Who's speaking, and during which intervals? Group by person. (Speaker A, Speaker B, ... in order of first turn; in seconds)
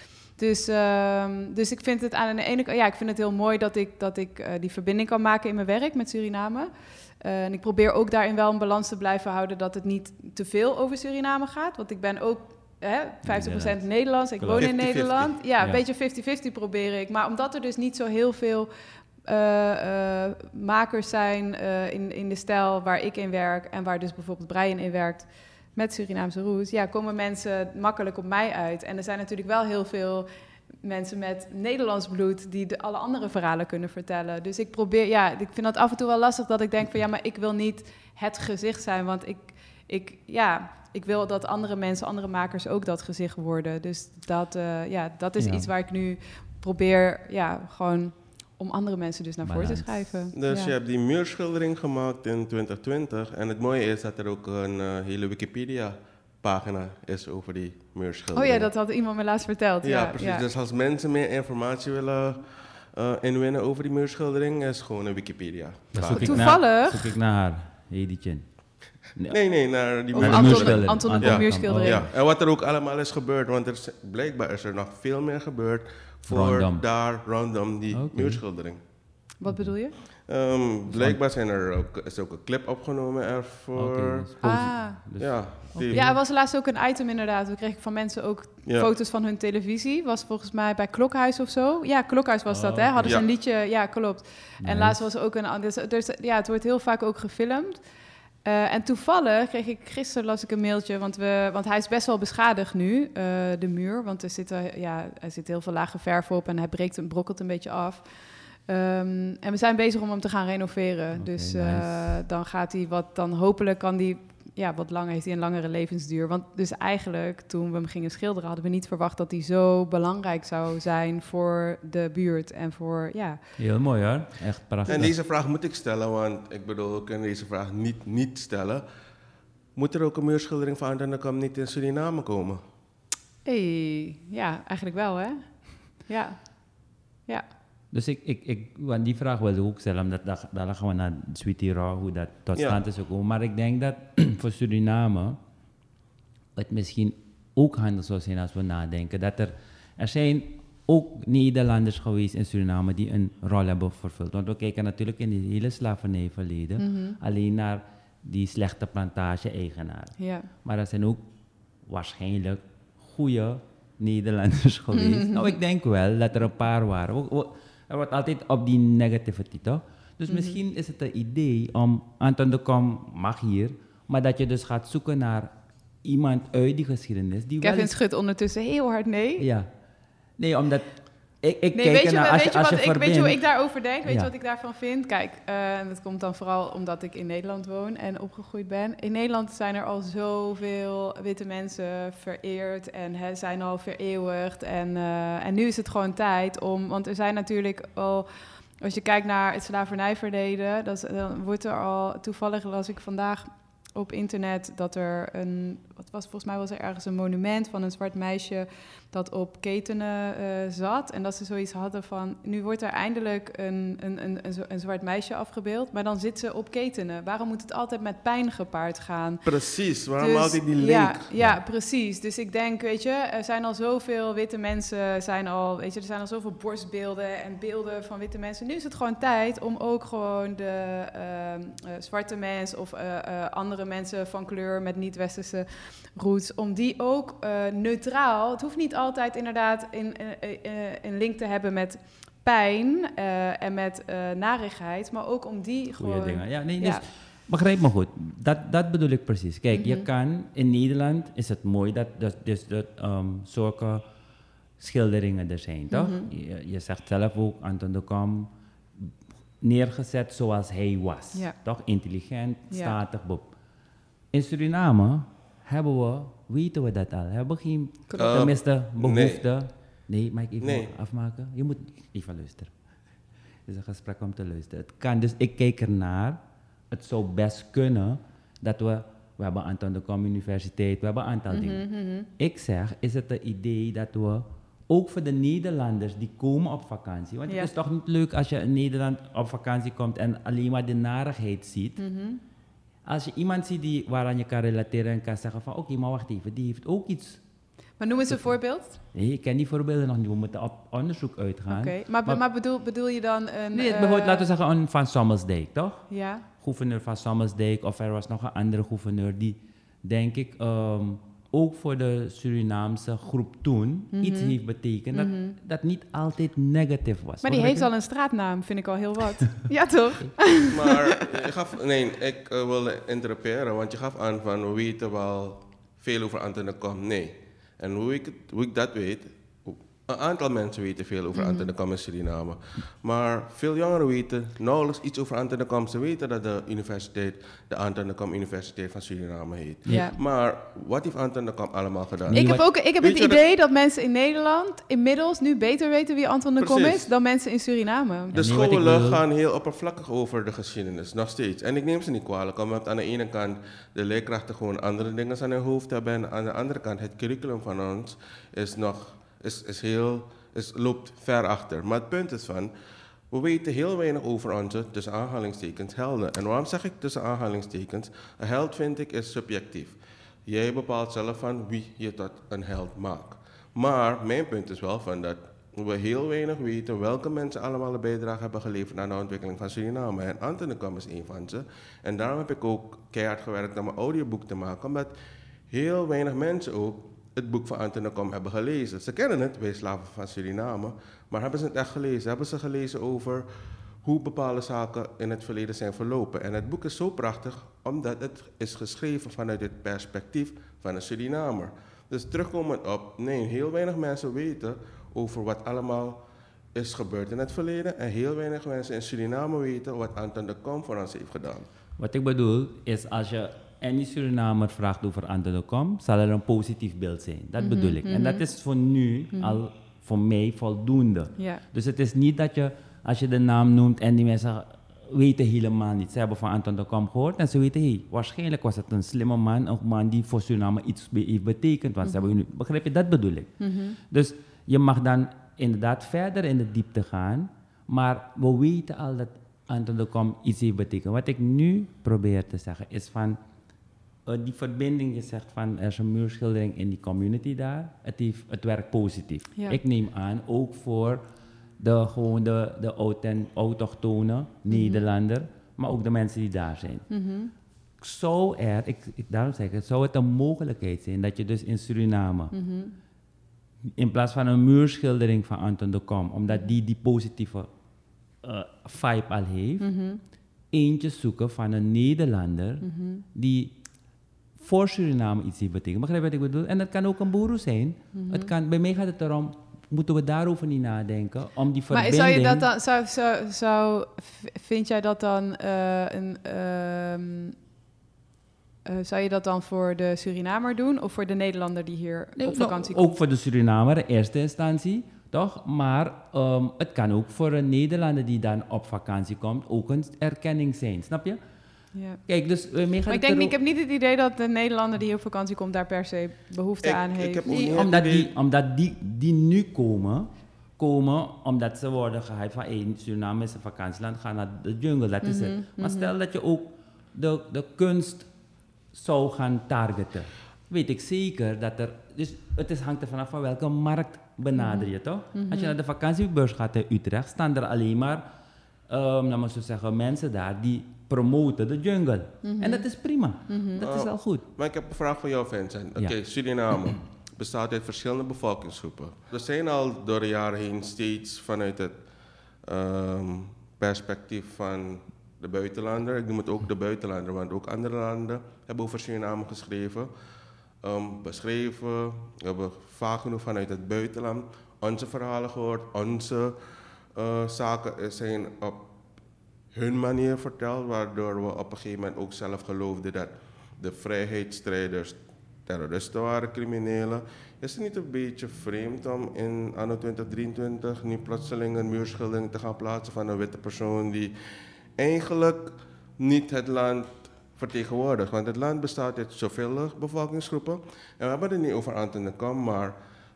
Speaker A: 0.3-18.7, 19.2-30.3, 30.8-50.7, 58.3-60.5, 66.1-67.1, 70.1-72.1, 79.4-80.0, 84.4-97.8, 98.4-123.4, 133.4-137.5, 156.8-157.2, 160.2-160.5, 164.9-165.4, 170.3-170.6, 177.6-179.5, 181.7-198.3, 198.8-219.5, 220.2-247.0, 249.7-250.1, 255.9-256.3, 262.7-263.0, 281.5-282.3, 292.0-292.4, 298.0-299.0, 301.7-304.5, 306.1-306.4, 314.1-314.6, 315.1-315.6, 317.4-320.9, 331.4-331.7, 339.9-340.2, 342.3-348.4, 417.6-418.4, 419.3-419.6, 421.4-421.6, 432.0-432.3, 433.6-434.0, 454.7-455.0, 457.1-457.5, 462.5-463.0, 466.5-466.7, 469.8-470.2, 472.8-473.2, 478.1-478.5, 481.9-487.6, 488.9-493.1, 501.9-502.2, 503.1-507.8, 515.2-516.1, 524.6-525.7, 532.4-532.9, 533.5-533.8
Speaker B: 13.2-14.7, 45.4-45.7, 49.4-50.3, 65.9-69.4, 70.0-72.1, 76.3-76.9, 77.9-78.4, 79.5-80.0, 80.9-81.2, 83.7-86.2, 92.5-93.2, 94.6-95.1, 111.2-112.2, 123.6-125.1, 137.9-145.4, 146.6-161.2, 161.9-175.5, 176.0-177.9, 179.4-179.7, 180.4-183.4, 221.4-221.6, 246.0-254.1, 254.8-263.5, 264.3-272.7, 273.7-276.4, 276.9-292.0, 293.1-297.4, 298.3-302.4, 303.7-317.9, 339.9-340.1, 342.3-342.7, 348.3-349.2, 412.0-443.4, 444.2-451.2, 451.8-457.1, 458.0-462.5, 463.9-467.7, 468.4-469.9, 470.7-473.8, 474.6-482.7, 492.4-501.4, 502.3-503.6, 507.7-518.3, 518.9-528.2, 528.9-534.5
Speaker C: 14.6-15.4, 50.4-58.7, 59.8-66.5, 69.3-78.8, 80.0-86.1, 124.9-128.8, 129.8-132.6, 142.6-142.8, 219.4-221.3, 268.2-269.4, 270.6-270.9, 320.7-343.4, 346.6-347.1, 348.3-362.7, 363.3-385.1, 385.7-411.7, 506.8-508.3, 533.8-550.1, 550.8-558.9, 559.7-583.0